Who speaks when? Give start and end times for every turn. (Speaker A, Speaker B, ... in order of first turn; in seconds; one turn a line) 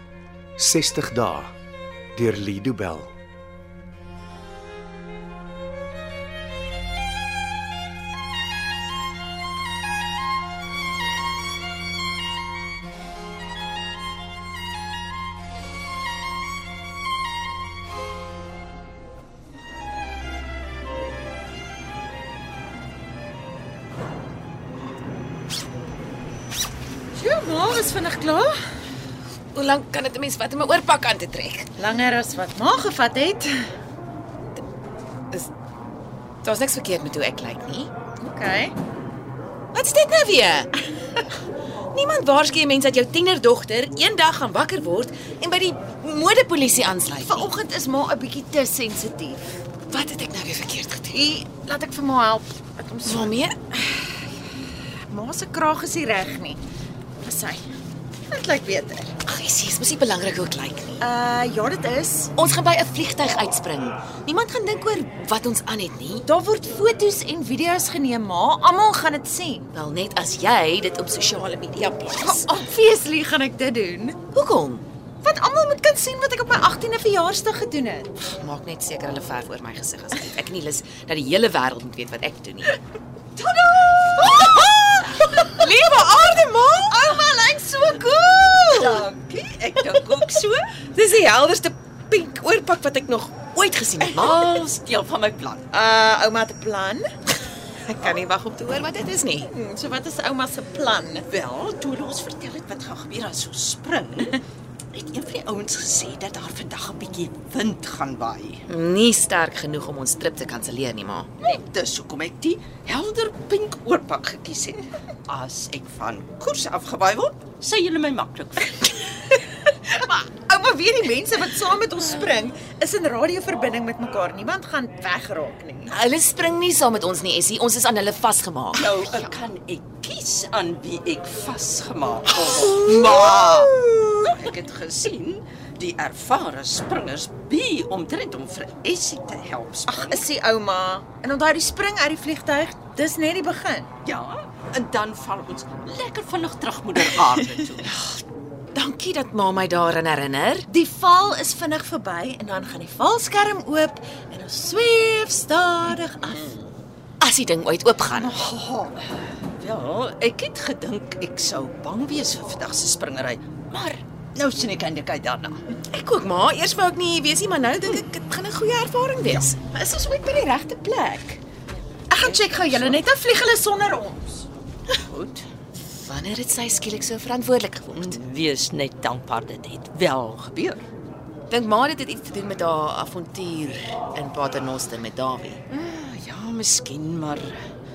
Speaker A: 0.6-1.5
Speaker A: 2.2-3.1
Speaker B: 27.1-28.6
Speaker C: 29.5-31.8
Speaker B: 31.8-33.6
Speaker C: 36.4-37.9
Speaker B: 38.2-38.7
Speaker C: 39.7-40.8
Speaker C: 41.9-47.5
Speaker B: 47.2-49.5
Speaker C: 49.9-51.2
Speaker B: 51.1-54.2
Speaker C: 53.0-53.6
Speaker B: 55.1-56.6
Speaker B: 57.2-57.7
Speaker B: 58.3-59.2
Speaker C: 59.2-61.1
Speaker B: 61.0-62.3
Speaker C: 62.4-66.3
Speaker B: 66.2-69.7
Speaker C: 69.7-72.5
Speaker B: 72.2-74.2
Speaker C: 74.3-74.8
Speaker B: 75.2-78.1
Speaker C: 78.2-82.8
Speaker D: 84.1-84.8
Speaker B: 84.1-89.0
Speaker D: 88.7-90.7
Speaker B: 90.9-93.3
Speaker C: 93.3-94.5
Speaker D: 94.0-95.7
Speaker B: 95.7-97.1
Speaker C: 97.8-99.5
Speaker B: 99.5-101.2
Speaker D: 101.3-104.4
Speaker D: 104.9-108.6
Speaker C: 108.7-111.4
Speaker D: 111.4-119.4
Speaker B: 119.8-125.9
Speaker C: 125.9-129.2
Speaker D: 128.7-140.2
Speaker B: 132.4-133.7
Speaker B: 139.9-143.9
Speaker D: 144.0-148.0
Speaker C: 148.7-150.7
Speaker B: 150.7-156.5
Speaker C: 157.2-158.3
Speaker D: 158.1-165.6
Speaker C: 165.9-169.6
Speaker B: 169.6-171.4
Speaker B: 172.1-174.4
Speaker D: 172.2-173.0
Speaker D: 175.0-175.4
Speaker C: 176.0-178.2
Speaker D: 177.9-180.8
Speaker C: 181.5-185.6
Speaker D: 185.7-187.5